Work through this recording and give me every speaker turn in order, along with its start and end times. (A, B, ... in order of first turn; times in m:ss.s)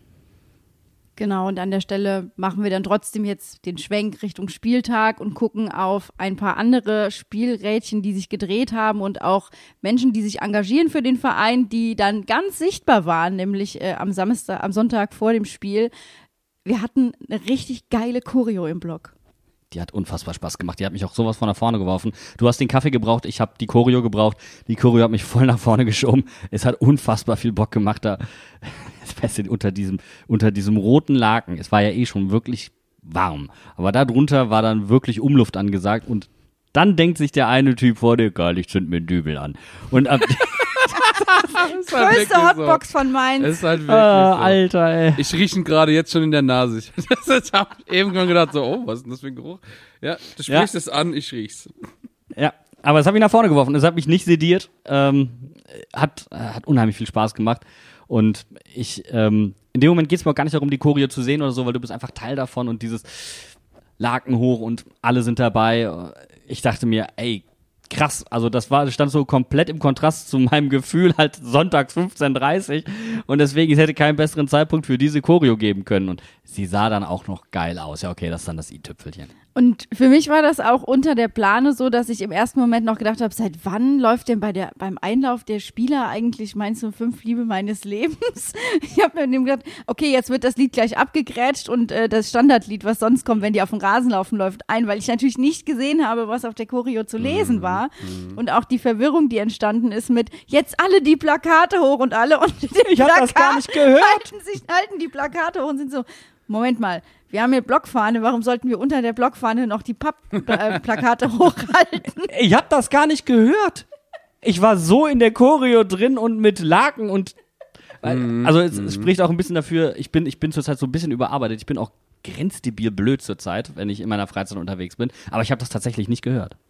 0:01.2-0:15.9 A
0:16.6-0:19.1 A
0:19.7-0:41.2 B
0:41.4-0:42.8 C
0:41.5-0:43.5 A
0:43.4-0:44.6 C
0:43.8-0:45.2 B
0:45.2-0:51.7 C
0:52.3-1:19.3 B
1:19.5-1:52.3 A
1:37.2-1:38.4 C
1:42.8-1:44.2 B
1:52.3-1:53.8 B
1:54.4-1:57.4 B
1:58.0-2:06.6 B
1:58.0-1:59.1 C